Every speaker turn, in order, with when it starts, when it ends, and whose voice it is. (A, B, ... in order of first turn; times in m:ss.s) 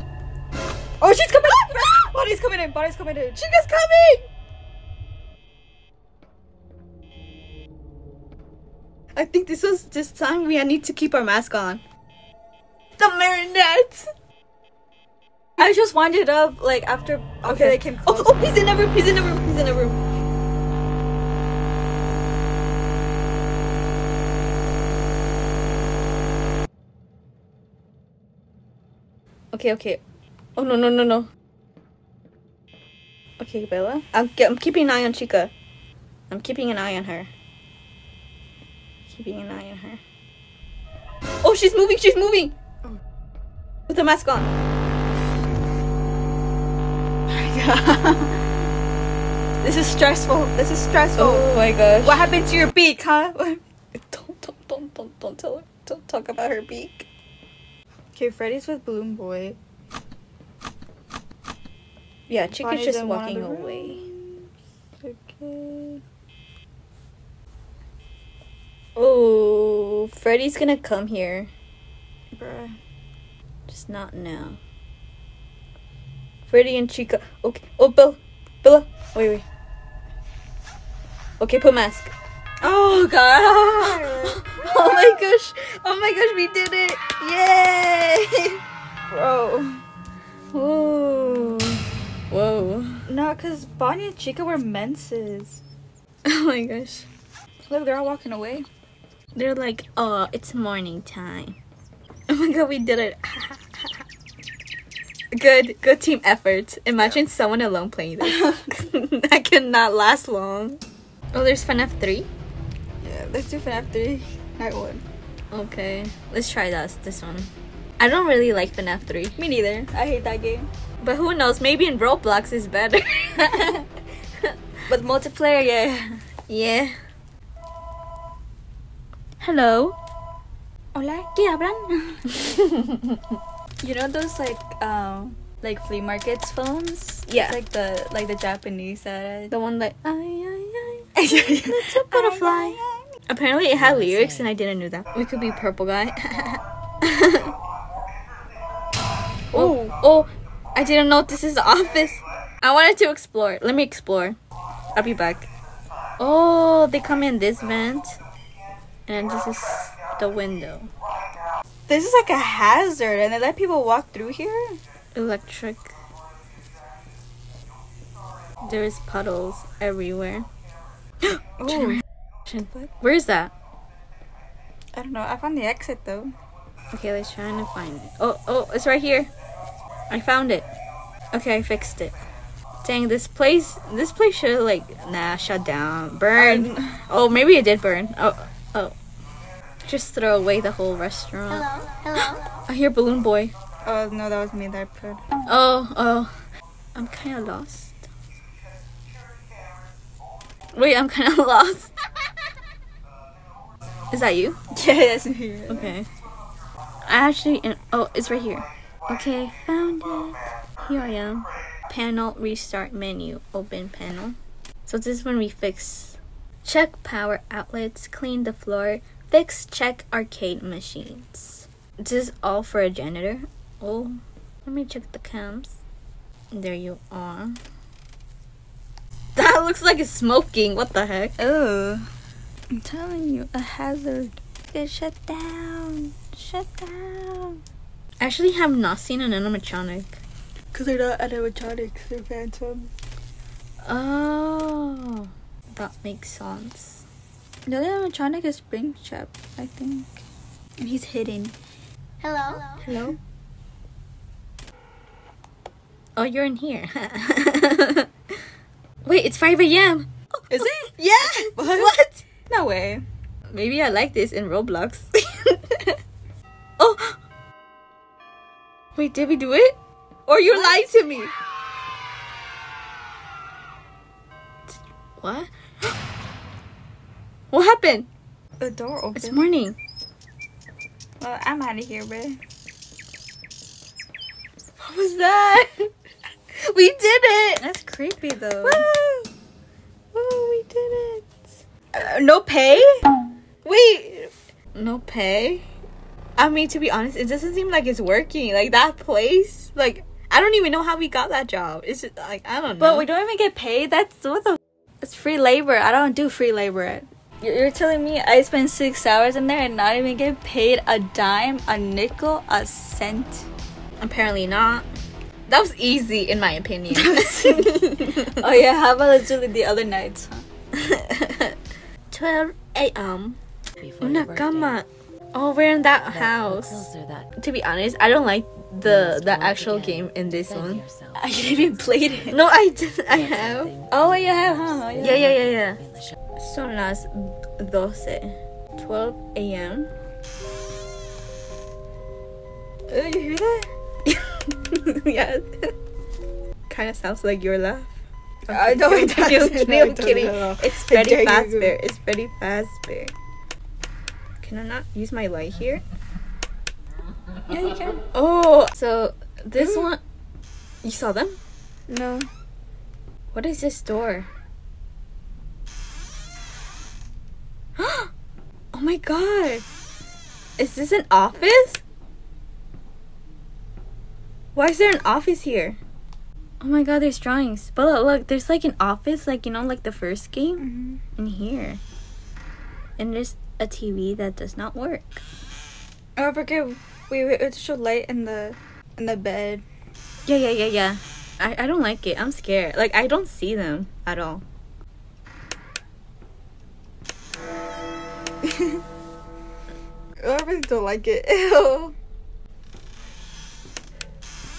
0:01.0-0:04.2 A
0:09.2-0:11.8 B
0:13.0-0:14.1 B
0:15.6-0:18.5 A
0:17.5-0:20.0 B
0:29.5-0:30.0 B
0:30.6-0:31.3 B
0:33.4-0:35.5 B
0:36.3-0:37.3 B
0:39.1-0:40.0 B
0:41.4-0:42.6 B
0:43.9-0:44.5 B
0:47.3-0:48.4 A
0:49.6-0:51.5 A
0:51.2-0:52.3 B
0:52.0-0:53.6 A
0:54.0-0:57.1 B
0:58.2-0:59.6 A
1:02.3-1:04.0 B
1:02.6-1:04.5 A
1:05.0-1:06.0 A
1:09.0-1:11.5 B
1:12.3-1:12.8 A
1:13.7-1:14.6 B
1:16.5-1:19.4 B
1:21.4-1:22.1 B
1:22.6-1:25.2 A
1:24.1-1:28.6 B
1:29.1-1:29.8 A
1:30.5-1:33.1 B
1:33.1-1:35.6 A
1:36.2-1:37.1 B
1:37.7-1:38.7 A
1:39.4-1:41.6 B
1:42.3-1:44.0 B
1:45.3-1:50.8 B
1:48.2-1:48.7 A
1:51.3-1:52.3 B
1:53.0-1:55.0 A
1:55.5-1:59.4 B
1:59.4-2:00.7 A
2:01.0-2:03.8 B
2:03.5-2:03.8 A
2:04.9-2:06.2 A
2:06.5-2:07.0 B
2:09.4-2:10.0 B
2:10.9-2:12.3 A
2:12.3-2:13.2 B
2:13.8-2:19.5 A
2:17.3-2:17.6 B
2:19.5-2:27.5 B
2:21.2-2:23.0 A
2:23.7-2:24.5 C
2:29.5-2:30.0 A
2:29.5-2:34.4 B
2:35.0-2:35.5 B
2:36.2-2:38.2 B
2:39.1-2:40.9 B
2:41.9-2:44.8 A
2:45.2-2:46.0 B
2:48.6-2:50.5 B
2:51.2-2:53.5 B
2:51.6-2:52.0 A
2:54.9-2:56.4 A
2:56.9-2:59.3 B
3:00.1-3:00.7 B
3:01.3-3:02.2 B
3:02.8-3:09.0 B
3:06.4-3:07.0 A
3:09.8-3:13.5 B
3:13.8-3:15.2 A
3:15.5-3:16.4 B
3:17.0-3:18.1 B
3:20.8-3:21.9 B
3:24.1-3:24.6 B
3:24.7-3:25.9 A
3:25.7-3:26.1 B
3:27.1-3:45.8 B
3:46.5-3:47.6 B
3:49.4-3:51.4 B
3:51.4-3:52.1 A
3:52.7-3:57.6 A
3:58.2-4:00.2 B
4:00.7-4:02.9 A
4:03.8-4:07.1 B
4:07.7-4:10.2 A
4:10.8-4:11.6 A
4:12.5-4:13.2 B
4:16.2-4:18.1 B
4:19.0-4:22.2 B
4:20.5-4:22.0 A
4:22.5-4:23.0 A
4:23.5-4:26.0 B
4:26.8-4:27.2 B
4:29.0-4:29.8 B
4:30.3-4:31.3 B
4:30.5-4:30.9 A
4:34.7-4:35.5 B
4:37.5-4:38.1 B
4:38.6-4:39.4 A
4:39.2-4:39.8 B
4:41.2-4:42.4 A
4:44.8-4:45.9 B
4:46.6-4:49.2 B
4:48.6-4:49.0 A
4:50.1-4:51.5 B
4:51.9-4:53.0 A
4:53.6-4:55.6 B
4:56.4-5:03.1 B
5:02.8-5:13.5 A
5:14.0-5:14.9 B
5:15.5-5:18.4 B
5:16.9-5:20.4 A
5:20.7-5:21.6 B
5:22.1-5:23.4 B
5:23.8-5:24.8 C
5:24.0-5:30.8 B
5:26.1-5:27.3 C
5:28.8-5:36.2 C
5:31.2-5:32.4 A
5:32.3-5:35.8 B
5:33.9-5:35.3 A
5:36.4-5:39.9 B
5:42.9-5:43.7 A
5:44.1-5:45.7 B
5:46.7-5:47.9 B
5:48.5-5:51.8 A
5:48.5-5:53.1 B
5:54.4-5:55.8 B
5:57.5-5:58.0 A
5:58.1-6:00.0 B
6:00.8-6:01.4 B
6:01.9-6:02.3 A
6:03.3-6:04.3 B
6:07.8-6:08.1 B
6:08.7-6:09.7 B
6:10.6-6:11.8 B
6:14.6-6:15.8 B
6:16.6-6:20.7 B
6:20.6-6:21.0 A
6:21.2-6:21.8 B
6:23.0-6:25.2 B
6:26.2-6:29.6 A
6:30.3-6:34.4 B
6:38.4-6:38.8 A
6:40.2-6:42.0 A